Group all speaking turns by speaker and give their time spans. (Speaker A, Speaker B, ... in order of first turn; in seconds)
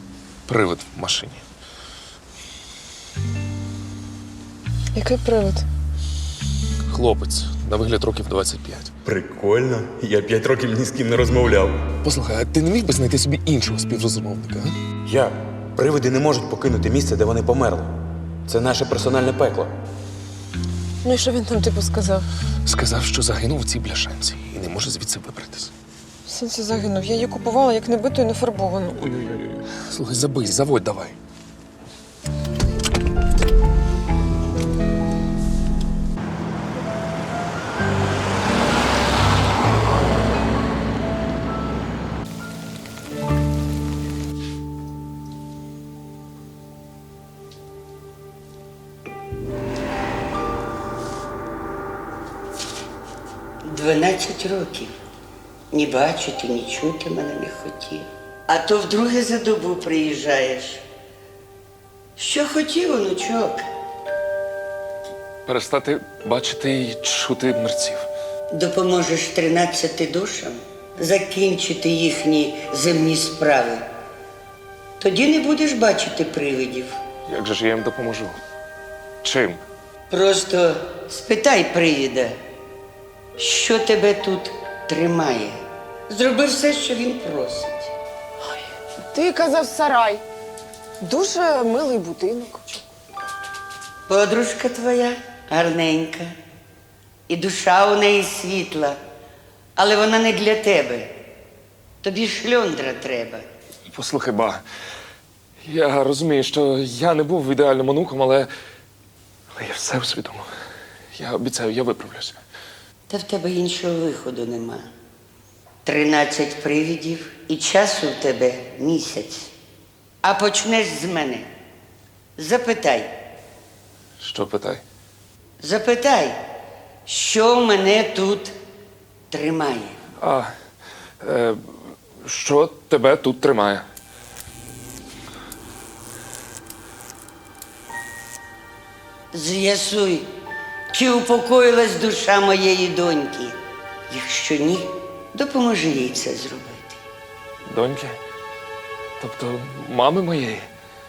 Speaker A: 0.5-1.4, 6.9-8.9, 12.0-14.7, 22.6-25.7, 29.1-31.1, 65.5-68.1, 77.3-78.4, 79.2-79.6, 103.9-104.6, 105.7-108.5, 109.5-110.5, 111.1-112.4, 124.2-124.8, 130.2-130.5, 131.2-133.8, 147.7-148.2, 149.2-150.7
Speaker B: 4.9-5.6, 21.0-22.2, 26.3-29.1, 88.5-90.2, 91.0-92.8
Speaker C: 9.0-11.8, 15.1-17.9, 18.5-19.7
Speaker D: 53.6-55.0, 55.7-60.8, 62.2-63.6, 68.5-73.8, 75.0-77.0, 80.1-82.4, 83.4-87.9, 94.1-96.3, 97.3-99.0, 99.8-101.2, 102.0-103.5, 113.1-114.9, 115.8-119.5, 120.2-121.5, 122.4-123.1, 125.6-126.4, 127.0-128.5, 129.3-129.9, 139.3-140.3, 140.9-147.0